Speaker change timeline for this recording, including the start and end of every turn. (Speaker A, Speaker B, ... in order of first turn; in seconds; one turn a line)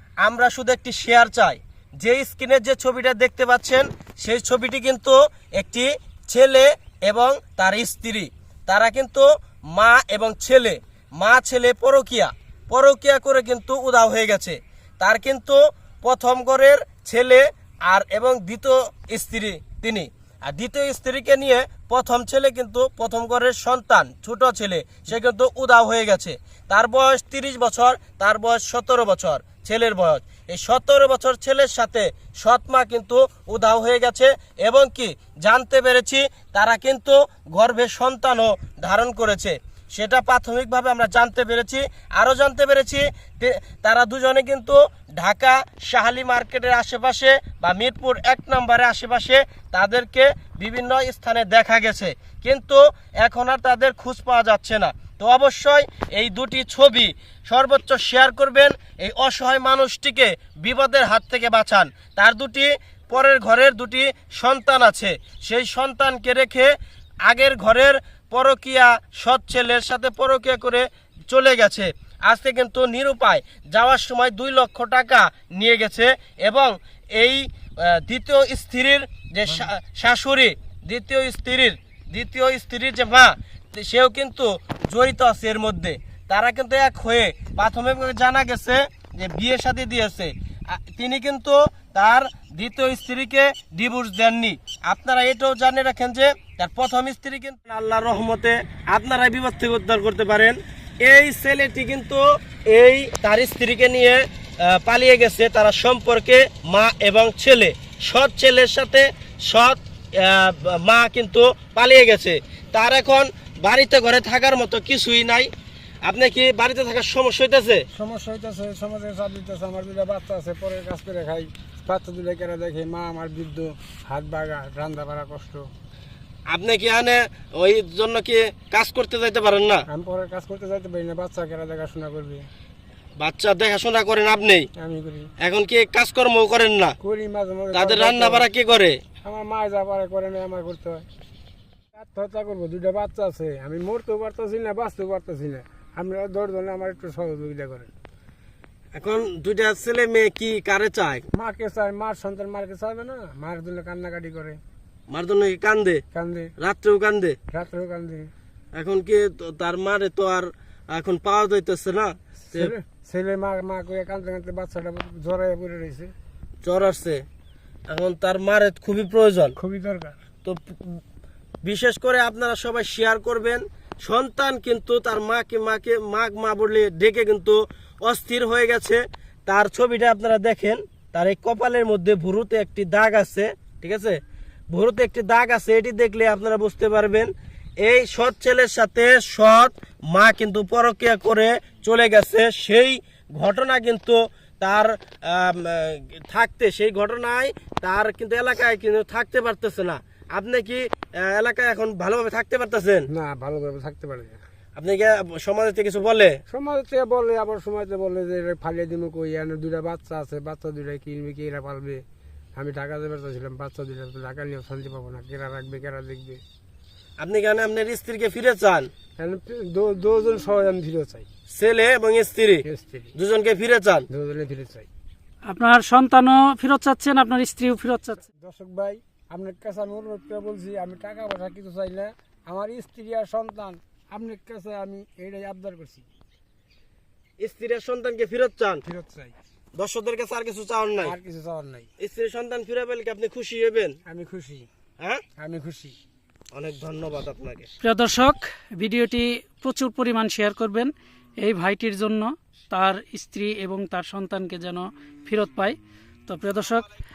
Speaker A: 0.2-66.7
Speaker A: 67.2-115.5
Speaker A: 116.0-117.8
Speaker B: 117.9-125.6
Speaker A: 126.5-129.8
Speaker B: 129.9-132.4
Speaker A: 133.2-134.7
Speaker B: 134.8-135.3
Speaker A: 135.4-136.9
Speaker B: 137.0-138.5
Speaker A: 137.7-139.0
Speaker B: 139.2-141.1
Speaker B: 141.9-147.9
Speaker A: 148.9-151.2
Speaker B: 151.3-154.6
Speaker A: 155.1-156.0
Speaker B: 156.1-156.5
Speaker A: 156.6-157.4
Speaker B: 157.5-158.3
Speaker A: 158.7-162.7
Speaker B: 162.5-166.1
Speaker A: 166.6-167.2
Speaker A: 167.9-169.6
Speaker B: 169.6-170.2
Speaker A: 170.4-171.0
Speaker A: 171.6-184.2
Speaker A: 184.7-187.3
Speaker A: 187.8-203.1
Speaker B: 203.1-204.4
Speaker A: 204.8-206.4
Speaker B: 206.5-212.0
Speaker B: 212.5-216.4
Speaker A: 217.2-218.9
Speaker B: 219.2-221.3
Speaker A: 221.5-224.1
Speaker B: 222.6-223.1
Speaker B: 224.1-224.9
Speaker C: 225.5-228.3
Speaker B: 228.4-236.1
Speaker A: 237.4-238.8
Speaker B: 238.8-239.3
Speaker A: 239.7-241.1
Speaker B: 241.0-241.9
Speaker A: 242.0-244.0
Speaker B: 244.1-244.7
Speaker B: 245.4-246.0
Speaker A: 246.5-247.7
Speaker C: 247.8-255.8
Speaker C: 256.3-256.8